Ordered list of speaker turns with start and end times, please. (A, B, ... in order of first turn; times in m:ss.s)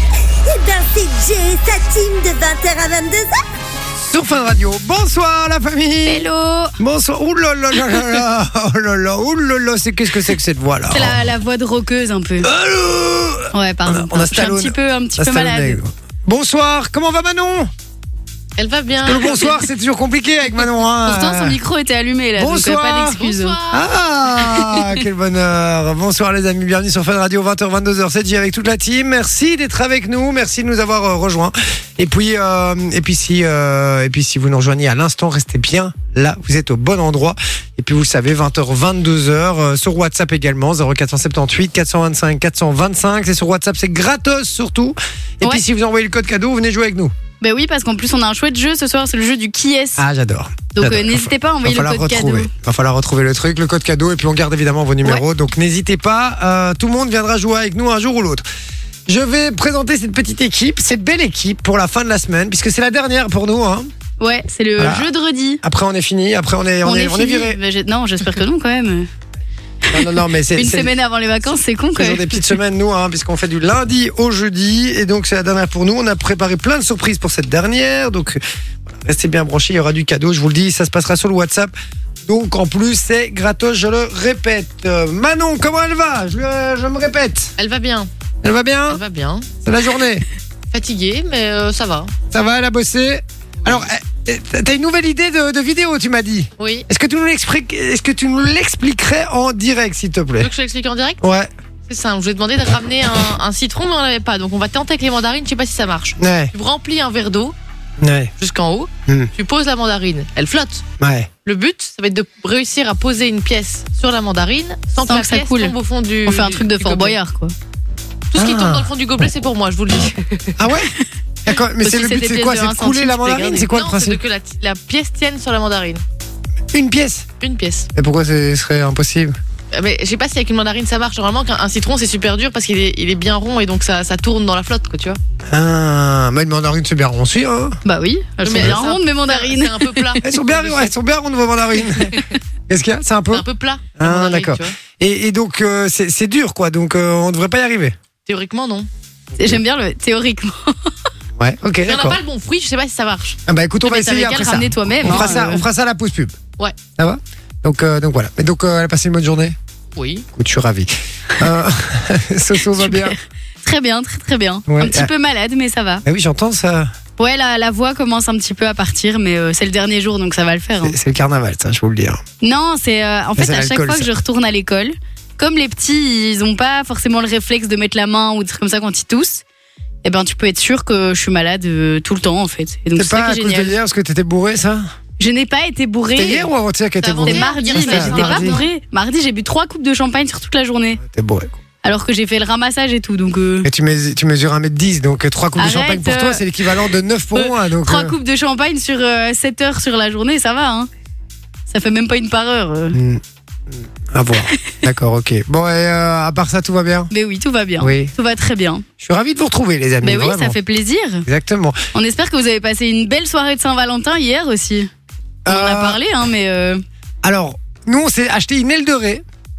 0:00.4-0:03.3 A
0:04.0-0:06.2 B
0:06.0-0:06.8 C
0:06.8-0:11.2 B
0:10.9-0:12.5 C
0:12.4-0:17.7 B
0:13.5-0:15.8 C
0:18.6-0:19.6 D
0:19.0-0:21.6 B
0:21.0-0:23.6 C
0:22.4-0:23.2 B
0:23.2-0:23.8 D
0:23.7-0:47.1 B
0:24.6-0:24.9 C
0:47.4-0:50.0 C
0:50.0-0:58.4 B
0:50.7-0:52.5 C
0:59.1-1:03.9 B
1:04.2-1:05.6 C
1:04.8-1:05.1 B
1:05.6-1:07.6 B
1:06.8-1:09.1 C
1:09.9-1:10.9 B
1:09.9-1:12.6 C
1:11.9-1:21.7 B
1:22.2-1:27.5 B
1:27.6-1:28.1 D
1:28.4-1:29.0 B
1:28.9-1:29.5 D
1:29.6-1:30.2 B
1:30.7-1:32.1 D
1:32.3-1:40.5 B
1:36.6-1:36.8 D
1:40.4-1:41.2 D
1:41.2-1:41.5 B
1:41.9-1:47.6 D
1:46.2-1:46.5 B
1:48.0-1:48.3 B
1:48.4-1:50.8 D
1:51.0-1:51.3 B
1:51.4-1:57.2 D
1:55.0-1:55.7 C
1:56.2-1:57.5 C
1:58.3-2:00.6 D
1:58.4-1:58.9 B
2:00.6-2:00.9 B
2:01.4-2:04.2 B
2:01.8-2:03.7 C
2:03.7-2:06.0 D
2:06.7-2:07.2 B
2:07.4-2:07.9 D
2:07.9-2:09.4 B
2:09.7-2:15.2 D
2:15.5-2:17.8 B
2:17.8-2:20.2 C
2:18.4-2:20.9 D
2:20.2-2:22.2 B
2:22.0-2:22.3 D
2:22.7-2:23.4 B
2:23.3-2:24.7 D
2:24.0-2:28.0 B
2:28.2-2:28.9 D
2:29.4-2:30.9 C
2:31.4-2:32.2 B
2:31.8-2:33.4 D
2:33.5-2:36.4 B
2:33.8-2:35.6 C
2:37.0-2:39.6 B
2:40.0-2:40.2 D
2:40.3-2:43.2 B
2:42.8-2:46.0 C
2:44.7-2:45.1 B
2:46.0-2:46.9 B
2:47.2-2:51.0 C
2:50.8-2:52.2 B
2:52.4-2:59.4 C
2:53.4-2:54.1 B
3:00.0-3:03.8 C
3:02.9-3:04.9 B
3:05.2-3:06.5 C
3:06.2-3:08.6 B
3:07.0-3:08.7 D
3:07.3-3:11.0 C
3:11.0-3:11.6 B
3:11.8-3:13.7 C
3:13.6-3:18.2 B
3:15.6-3:16.4 C
3:17.3-3:20.9 C
3:21.7-3:23.0 C
3:22.9-3:27.1 B
3:27.1-3:28.8 C
3:27.8-3:28.1 B
3:29.0-3:30.6 B
3:30.0-3:31.2 C
3:31.2-3:31.8 B
3:31.9-3:34.9 C
3:35.4-3:36.0 B
3:35.5-3:36.8 C
3:37.2-3:39.2 B